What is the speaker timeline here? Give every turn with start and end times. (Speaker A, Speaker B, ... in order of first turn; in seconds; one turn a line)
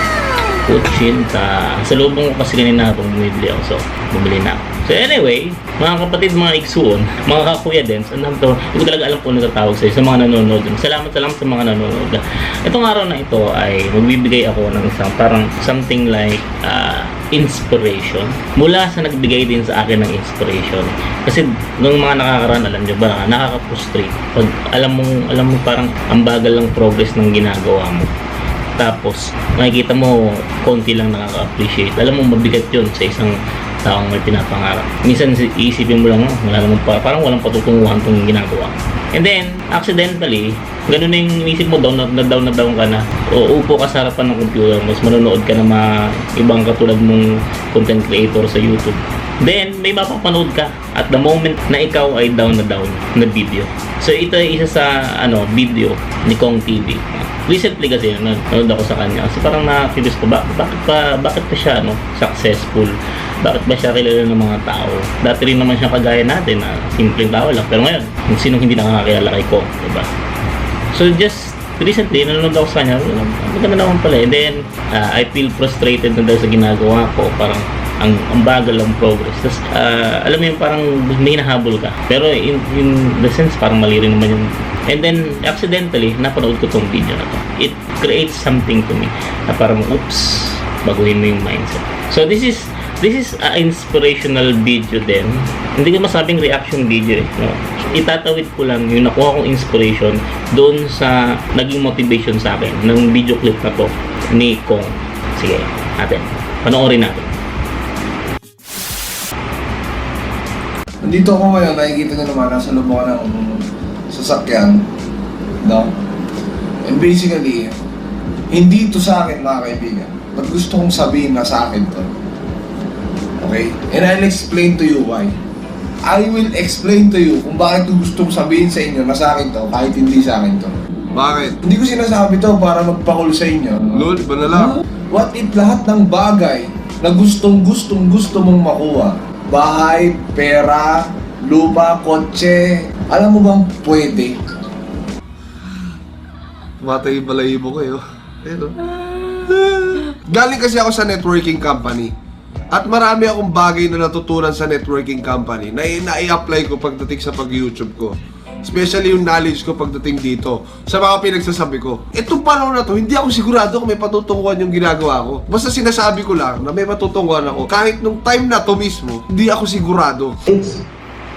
Speaker A: 0.5-28.1
Speaker A: 28.8-70.1
Speaker A: 70.9-107.3
Speaker B: 111.0-114.8
Speaker B: 115.6-115.9
Speaker B: 116.8-117.7
Speaker B: 118.5-122.1
Speaker B: 123.4-125.4
Speaker B: 126.0-130.7
Speaker C: 131.1-131.6
Speaker B: 131.6-134.0
Speaker C: 133.9-134.8
Speaker B: 134.6-144.4
Speaker C: 146.8-152.1
Speaker C: 152.7-170.6